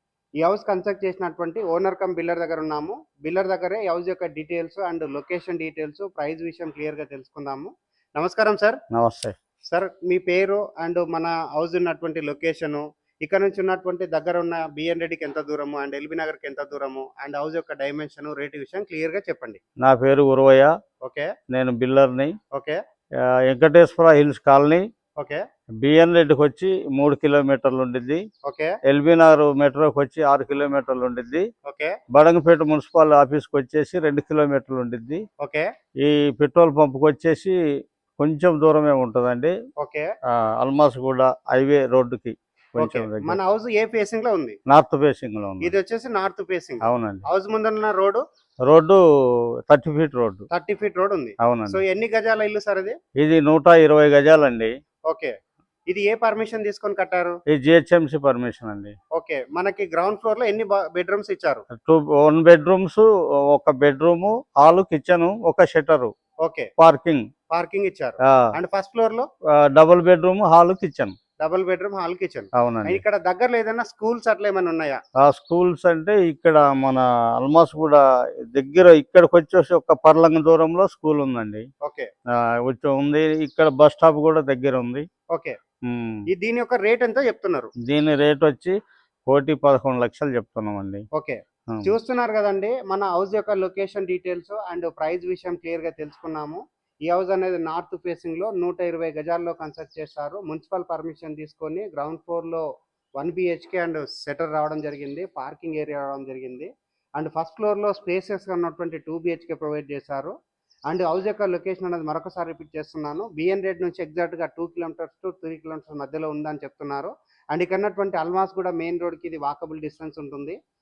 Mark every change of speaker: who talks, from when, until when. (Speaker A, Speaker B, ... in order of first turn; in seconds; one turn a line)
Speaker A: 0.4-8.8
Speaker B: 8.9-9.3
Speaker A: 9.7-19.6
Speaker B: 19.8-20.7
Speaker A: 21.0-21.3
Speaker B: 21.5-22.3
Speaker A: 22.5-22.8
Speaker B: 23.2-24.9
Speaker B: 25.8-28.2
Speaker A: 28.4-28.7
Speaker B: 28.9-31.4
Speaker A: 31.6-32.0
Speaker B: 32.1-35.2
Speaker A: 35.4-35.7
Speaker B: 36.0-37.5
Speaker B: 38.2-39.5
Speaker A: 39.8-40.1
Speaker B: 40.3-43.4
Speaker A: 42.8-44.6
Speaker B: 44.7-45.7
Speaker A: 45.6-48.2
Speaker B: 46.8-47.2
Speaker B: 48.7-49.0
Speaker B: 49.7-50.5
Speaker A: 50.5-53.0
Speaker B: 51.4-51.8
Speaker B: 53.2-54.7
Speaker A: 55.9-57.4
Speaker B: 57.5-58.9
Speaker A: 59.1-61.6
Speaker B: 61.8-66.1
Speaker A: 66.4-66.7
Speaker B: 66.8-67.3
Speaker A: 67.5-69.3
Speaker B: 69.6-71.2
Speaker A: 71.4-75.0
Speaker B: 72.6-73.0
Speaker B: 75.2-81.7
Speaker B: 82.7-85.0
Speaker A: 85.3-85.6
Speaker B: 85.9-86.2
Speaker A: 86.3-87.7
Speaker B: 87.8-88.8
Speaker B: 89.3-91.0
Speaker A: 91.1-102.7
Speaker A: 103.2-110.3
Speaker A: 110.9-120.6